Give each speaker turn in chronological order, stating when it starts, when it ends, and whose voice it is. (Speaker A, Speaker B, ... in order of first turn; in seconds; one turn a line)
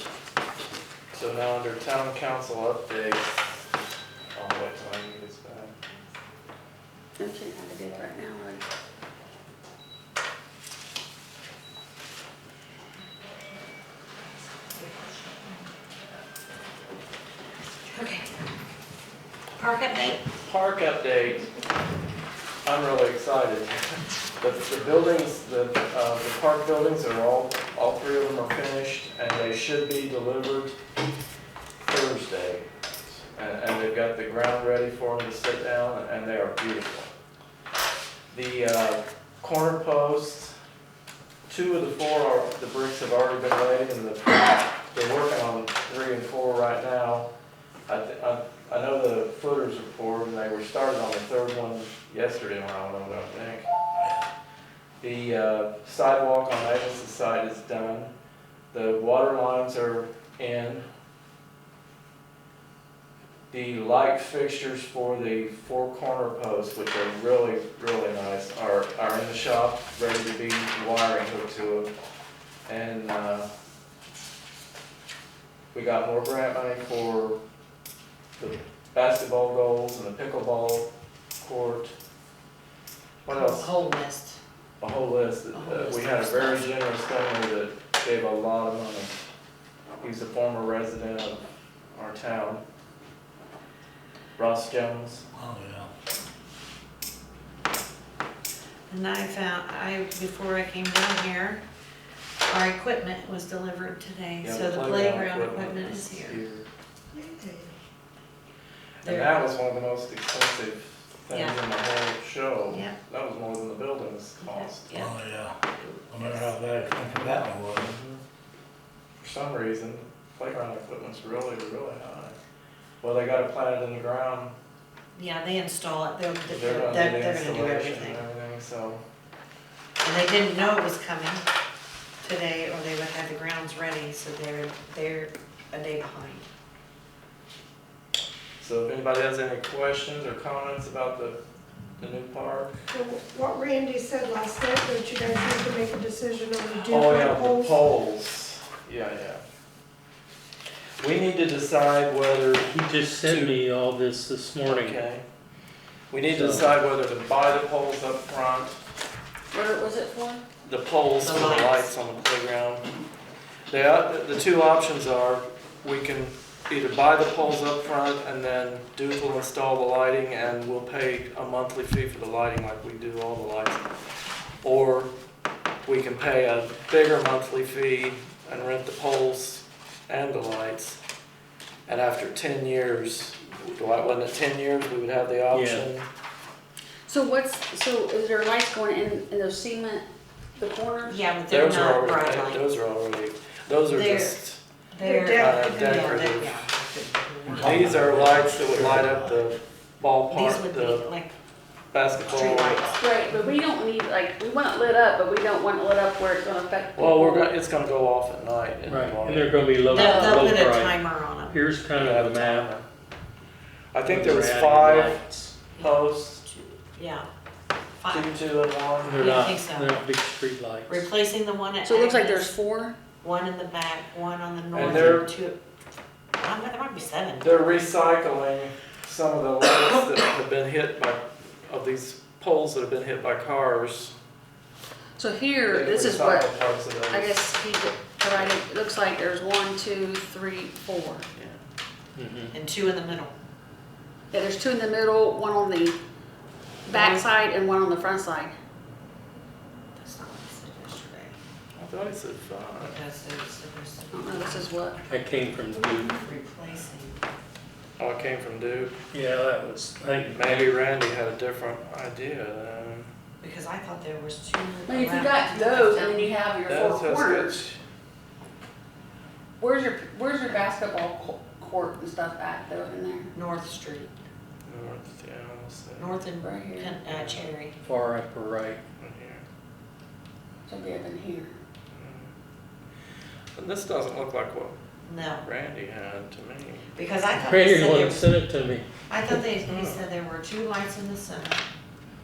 Speaker A: 1.1-3.4
Speaker A: 4.3-5.7
Speaker B: 7.2-8.6
Speaker C: 14.8-15.4
Speaker C: 17.9-18.3
Speaker C: 19.6-20.2
Speaker A: 20.3-21.5
Speaker A: 22.6-23.7
Speaker A: 24.4-30.7
Speaker A: 31.9-32.6
Speaker A: 33.2-37.1
Speaker A: 38.3-40.5
Speaker A: 41.5-47.3
Speaker A: 47.9-53.7
Speaker A: 55.0-58.1
Speaker A: 58.7-60.8
Speaker A: 63.5-71.9
Speaker A: 72.7-73.5
Speaker A: 75.7-77.4
Speaker A: 78.4-80.9
Speaker A: 81.4-81.9
Speaker A: 83.2-83.8
Speaker C: 83.3-84.4
Speaker A: 84.8-89.1
Speaker C: 85.5-86.6
Speaker A: 90.0-91.4
Speaker A: 91.9-92.6
Speaker A: 94.4-95.2
Speaker D: 95.3-95.9
Speaker C: 98.9-101.6
Speaker C: 102.5-106.4
Speaker A: 104.4-106.7
Speaker E: 107.1-107.7
Speaker A: 109.0-114.9
Speaker C: 109.0-109.4
Speaker C: 111.3-111.6
Speaker C: 112.7-113.0
Speaker C: 114.4-115.2
Speaker D: 114.9-115.6
Speaker C: 115.8-116.5
Speaker D: 116.1-117.9
Speaker A: 117.8-118.2
Speaker A: 119.2-122.3
Speaker A: 123.0-124.5
Speaker C: 125.1-128.2
Speaker A: 126.5-129.0
Speaker C: 130.0-131.4
Speaker C: 132.2-136.4
Speaker A: 138.6-141.4
Speaker A: 142.0-142.9
Speaker E: 142.9-147.8
Speaker A: 146.7-149.4
Speaker A: 151.0-153.6
Speaker F: 152.7-155.0
Speaker A: 154.6-155.2
Speaker A: 156.1-158.8
Speaker F: 156.3-156.7
Speaker B: 159.5-160.4
Speaker A: 160.6-162.8
Speaker C: 161.2-161.9
Speaker A: 163.7-173.8
Speaker A: 174.6-175.1
Speaker A: 175.8-181.0
Speaker A: 181.9-186.0
Speaker F: 185.5-185.9
Speaker B: 187.1-190.0
Speaker B: 190.6-191.2
Speaker C: 191.0-192.7
Speaker A: 191.5-194.6
Speaker C: 193.9-198.1
Speaker E: 195.0-196.0
Speaker A: 195.4-196.6
Speaker D: 197.5-199.4
Speaker A: 197.5-201.0
Speaker C: 200.3-201.3
Speaker A: 201.9-202.9
Speaker C: 202.2-203.0
Speaker B: 202.9-207.5
Speaker A: 206.9-209.6
Speaker F: 208.9-210.9
Speaker C: 209.9-211.6
Speaker B: 209.9-210.5
Speaker F: 211.5-212.7
Speaker A: 211.9-212.8
Speaker A: 213.9-215.2
Speaker F: 214.0-215.6
Speaker C: 215.8-217.3
Speaker A: 215.8-216.4
Speaker C: 218.0-218.3
Speaker A: 218.1-219.2
Speaker F: 219.0-221.1
Speaker C: 219.2-220.0
Speaker C: 220.9-222.5
Speaker B: 221.8-222.9
Speaker C: 223.2-225.6
Speaker A: 224.7-225.3
Speaker F: 224.8-225.2
Speaker C: 226.3-227.5
Speaker A: 227.4-234.1
Speaker B: 235.2-236.5
Speaker A: 235.7-237.3
Speaker B: 237.1-241.2
Speaker F: 242.2-242.5
Speaker C: 242.5-243.3
Speaker B: 244.3-246.0
Speaker B: 246.8-248.5
Speaker C: 246.9-247.2
Speaker C: 250.0-251.3
Speaker A: 251.8-253.0
Speaker C: 252.8-254.8
Speaker B: 254.1-255.0
Speaker F: 255.1-256.1
Speaker C: 255.7-257.2
Speaker A: 258.0-258.9
Speaker F: 259.1-260.7
Speaker A: 260.3-263.1
Speaker C: 263.4-266.4
Speaker B: 264.9-267.6
Speaker A: 266.6-267.8
Speaker B: 269.6-273.3
Speaker C: 273.3-274.1
Speaker A: 274.6-276.1
Speaker C: 276.0-277.8
Speaker B: 276.4-277.0
Speaker A: 277.1-277.5
Speaker F: 277.8-278.8
Speaker A: 279.0-279.4
Speaker B: 280.7-281.6
Speaker A: 281.9-282.3
Speaker A: 283.5-284.8
Speaker C: 285.1-285.4
Speaker A: 285.4-286.9
Speaker C: 286.9-288.4
Speaker F: 287.3-288.9
Speaker C: 289.1-291.6
Speaker A: 289.3-290.0